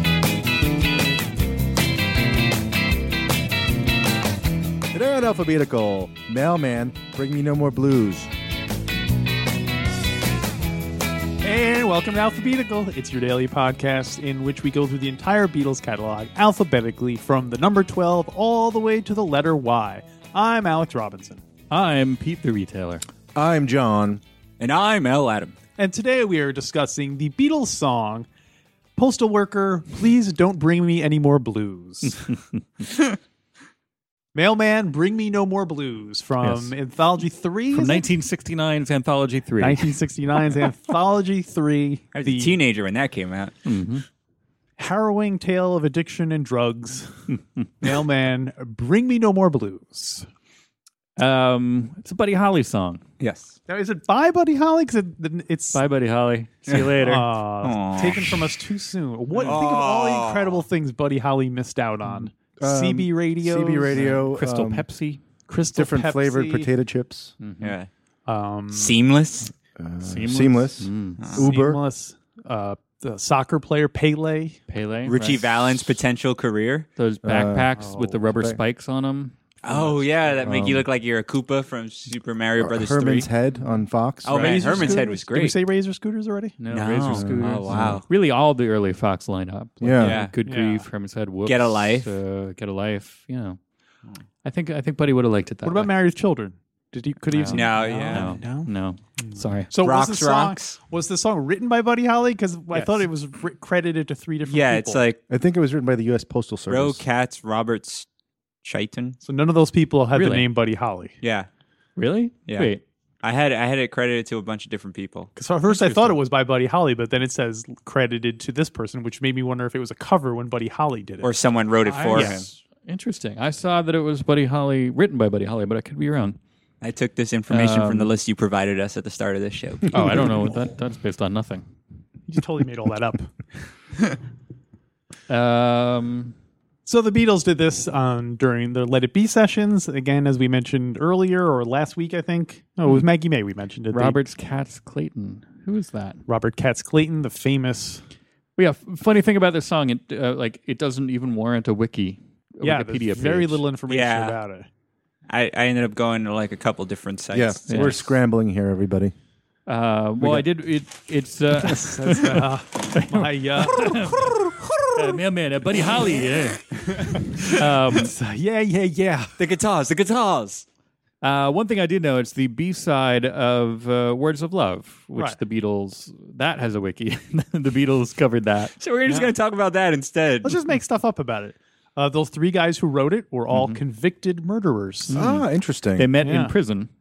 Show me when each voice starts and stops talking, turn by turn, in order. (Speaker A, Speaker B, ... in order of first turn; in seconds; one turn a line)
Speaker A: 4.9-8.3
Speaker B: 11.4-21.4
Speaker C: 21.7-23.0
Speaker A: 23.3-24.2
Speaker D: 24.6-25.6
Speaker B: 25.8-28.3
Speaker B: 29.0-32.3
Speaker B: 34.3-38.1
Speaker C: 36.4-36.7
Speaker C: 37.7-39.9
Speaker B: 39.6-42.6
Speaker D: 42.1-43.5
Speaker C: 43.6-44.0
Speaker B: 44.8-47.2
Speaker C: 47.3-47.6
Speaker B: 47.8-50.3
Speaker C: 51.2-53.0
Speaker D: 53.2-53.5
Speaker B: 53.7-55.8
Speaker C: 55.7-57.3
Speaker B: 57.0-64.2
Speaker D: 57.6-58.6
Speaker D: 59.4-60.6
Speaker A: 62.6-64.8
Speaker C: 63.9-65.2
Speaker B: 65.5-66.7
Speaker A: 65.7-67.3
Speaker C: 67.4-67.8
Speaker D: 67.6-67.9
Speaker B: 68.3-69.0
Speaker D: 68.7-69.5
Speaker A: 69.8-71.8
Speaker C: 70.0-71.2
Speaker D: 71.2-71.5
Speaker B: 71.4-74.6
Speaker C: 74.7-75.6
Speaker D: 75.1-76.9
Speaker C: 77.0-80.1
Speaker A: 77.2-78.6
Speaker D: 79.6-83.3
Speaker A: 80.4-80.9
Speaker A: 82.6-85.1
Speaker D: 84.2-85.6
Speaker C: 84.3-84.7
Speaker B: 84.3-86.6
Speaker C: 86.6-93.6
Speaker D: 86.7-88.0
Speaker A: 87.1-88.0
Speaker A: 89.8-90.2
Speaker D: 90.0-90.3
Speaker B: 90.5-90.9
Speaker D: 91.5-92.1
Speaker C: 94.4-95.9
Speaker B: 95.6-98.7
Speaker C: 97.3-99.7
Speaker D: 97.5-98.4
Speaker B: 99.4-105.1
Speaker D: 99.8-100.8
Speaker C: 102.7-103.0
Speaker D: 104.5-105.2
Speaker A: 105.3-107.0
Speaker D: 106.7-108.1
Speaker D: 108.6-109.2
Speaker B: 109.2-111.1
Speaker C: 110.2-110.5
Speaker D: 111.2-111.5
Speaker C: 112.0-112.8
Speaker D: 113.2-115.3
Speaker B: 115.4-121.3
Speaker C: 115.7-116.2
Speaker D: 121.2-122.5
Speaker C: 121.9-126.4
Speaker B: 121.9-122.5
Speaker D: 126.8-130.2
Speaker C: 127.5-128.1
Speaker C: 129.9-131.6
Speaker B: 132.3-133.3
Speaker C: 135.3-136.3
Speaker B: 136.8-144.2
Speaker C: 143.9-146.2
Speaker B: 146.2-148.0
Speaker C: 148.6-153.6
Speaker B: 152.6-154.7
Speaker D: 153.9-154.4
Speaker D: 155.3-158.1
Speaker A: 157.3-159.1
Speaker C: 157.7-158.0
Speaker C: 159.7-164.3
Speaker A: 160.2-160.5
Speaker B: 161.6-165.2
Speaker C: 164.9-166.6
Speaker B: 167.2-169.3
Speaker C: 167.5-168.1
Speaker D: 169.4-170.6
Speaker C: 171.2-178.7
Speaker D: 178.8-180.6
Speaker B: 179.1-179.3
Speaker B: 180.4-185.2
Speaker C: 183.5-183.8
Speaker C: 185.1-186.9
Speaker A: 185.1-186.1
Speaker B: 186.2-186.5